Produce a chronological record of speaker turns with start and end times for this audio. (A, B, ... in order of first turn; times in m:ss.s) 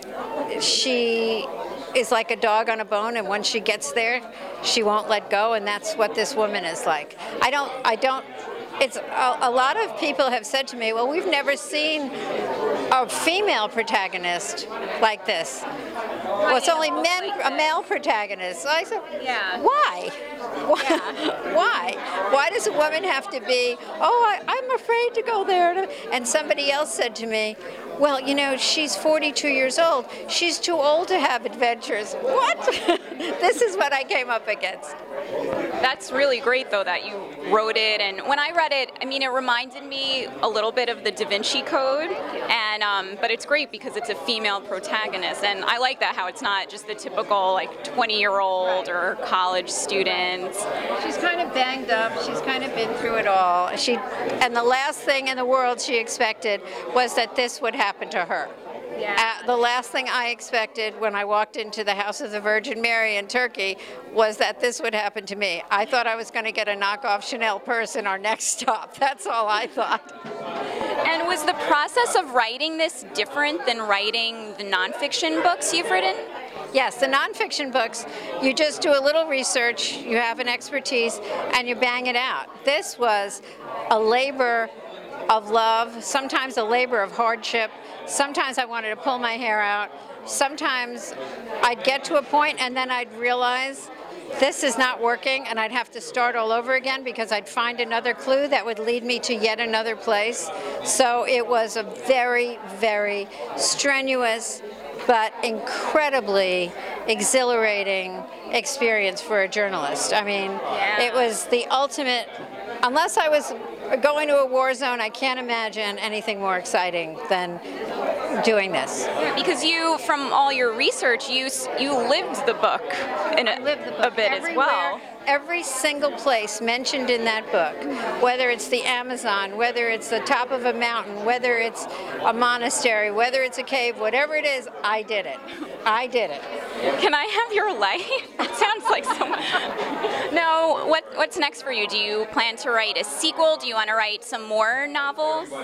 0:00.4-0:08.3 A
0:08.8-0:12.1 A
0:12.9-0:15.7 A
0:16.4-0:17.7 B
0:16.4-0:35.0 A
0:19.2-0:19.6 B
0:20.8-0:21.2 B
0:35.8-0:50.7 B
0:51.0-0:58.5 A
0:59.0-0:59.5 B
0:59.1-1:10.2 A
1:11.0-1:16.3 B
1:16.7-1:24.7 A
1:25.3-1:52.3 A
1:50.7-1:51.3 B
1:52.8-1:57.6 A
1:58.4-1:59.1 A
1:59.2-2:05.0 B
2:03.4-2:16.4 A
2:17.0-2:25.5 B